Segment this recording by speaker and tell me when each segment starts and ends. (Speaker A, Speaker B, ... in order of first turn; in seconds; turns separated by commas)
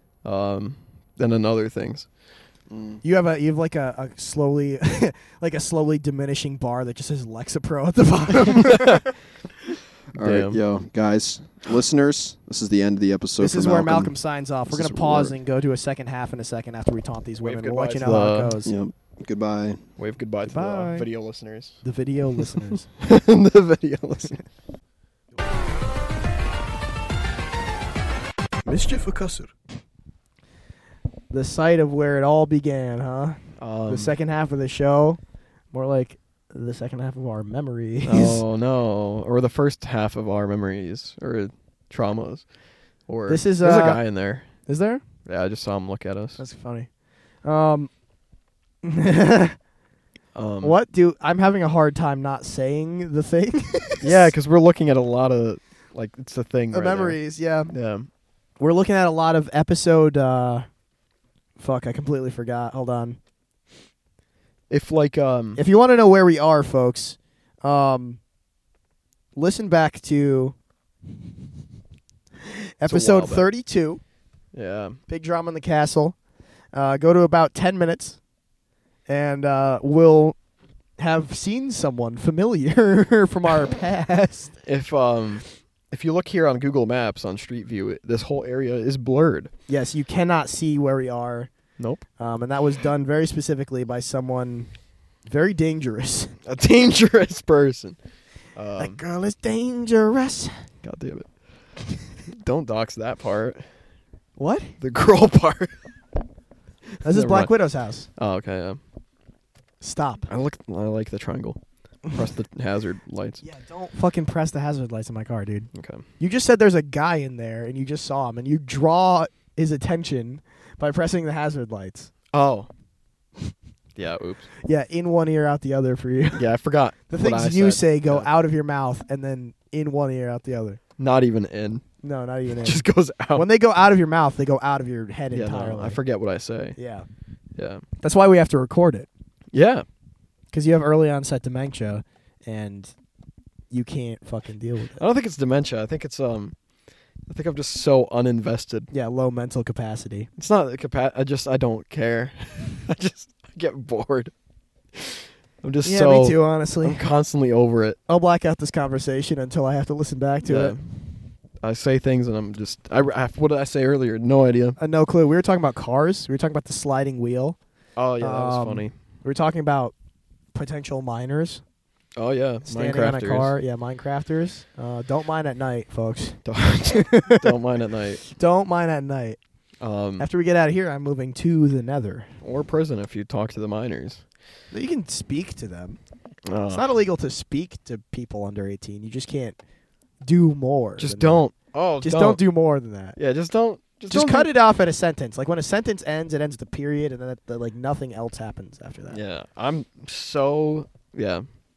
Speaker A: 0.2-2.1, Speaker B: 2.7-3.0, Speaker C: 3.0-9.1, Speaker B: 10.1-14.2, Speaker A: 10.2-10.6, Speaker C: 13.4-18.7, Speaker B: 14.7-15.3, Speaker A: 17.4-18.6, Speaker B: 18.6-19.8, Speaker A: 20.0-21.8, Speaker C: 20.4-21.1, Speaker C: 21.8-22.9, Speaker A: 23.0-24.4, Speaker C: 28.6-29.5, Speaker C: 31.3-35.2, Speaker A: 33.6-34.1, Speaker C: 35.7-38.4, Speaker A: 38.0-42.5, Speaker A: 43.0-44.6, Speaker C: 43.3-45.0, Speaker A: 45.2-46.4, Speaker C: 46.4-46.9, Speaker C: 47.4-47.9, Speaker C: 48.8-49.6, Speaker A: 50.3-50.8, Speaker C: 50.6-54.3, Speaker A: 54.0-58.1, Speaker C: 56.7-57.7, Speaker C: 58.6-60.6, Speaker C: 61.6-63.2, Speaker A: 64.7-65.6, Speaker C: 65.5-68.2, Speaker C: 69.3-70.5, Speaker C: 72.8-74.0, Speaker A: 72.9-73.5, Speaker A: 74.5-75.0, Speaker C: 75.1-76.2, Speaker C: 76.7-78.2, Speaker C: 79.1-80.4, Speaker C: 81.0-84.6, Speaker A: 84.6-89.5, Speaker C: 89.7-91.5, Speaker A: 91.8-92.0, Speaker C: 92.2-94.7, Speaker C: 95.2-96.3, Speaker A: 96.5-98.0, Speaker A: 98.5-99.0, Speaker C: 98.8-100.7, Speaker A: 100.8-103.7, Speaker C: 104.4-104.8, Speaker A: 104.8-105.8, Speaker C: 107.0-108.1, Speaker A: 107.0-107.5, Speaker A: 108.2-108.8, Speaker C: 109.8-110.3, Speaker A: 110.3-113.4, Speaker C: 113.4-122.1, Speaker A: 115.7-116.0, Speaker A: 122.3-122.7, Speaker A: 124.0-124.5, Speaker C: 124.6-126.5, Speaker A: 126.3-128.3, Speaker C: 127.1-130.8, Speaker A: 131.0-131.8, Speaker C: 132.0-136.0, Speaker A: 132.6-133.4, Speaker A: 135.3-136.8, Speaker C: 136.8-137.1, Speaker A: 137.6-137.8, Speaker C: 138.0-139.1, Speaker A: 139.5-139.8, Speaker C: 140.5-142.9, Speaker C: 143.7-145.0, Speaker A: 144.9-146.5, Speaker A: 147.3-148.9, Speaker C: 148.9-150.3, Speaker A: 150.4-154.3, Speaker A: 154.9-158.0, Speaker C: 155.8-157.0, Speaker C: 158.1-160.8, Speaker A: 160.4-164.8, Speaker C: 164.8-167.6, Speaker A: 168.0-168.9, Speaker C: 168.1-169.9, Speaker C: 170.5-171.6, Speaker A: 172.2-173.5, Speaker C: 172.6-177.5, Speaker A: 176.4-178.2, Speaker C: 178.2-179.4, Speaker A: 179.8-180.3, Speaker C: 180.2-182.3, Speaker A: 182.4-184.2, Speaker C: 184.7-186.0, Speaker A: 186.5-186.8, Speaker C: 186.7-189.6, Speaker C: 190.2-193.2, Speaker A: 191.0-192.4, Speaker A: 193.2-194.5, Speaker C: 194.1-199.2, Speaker A: 199.1-201.4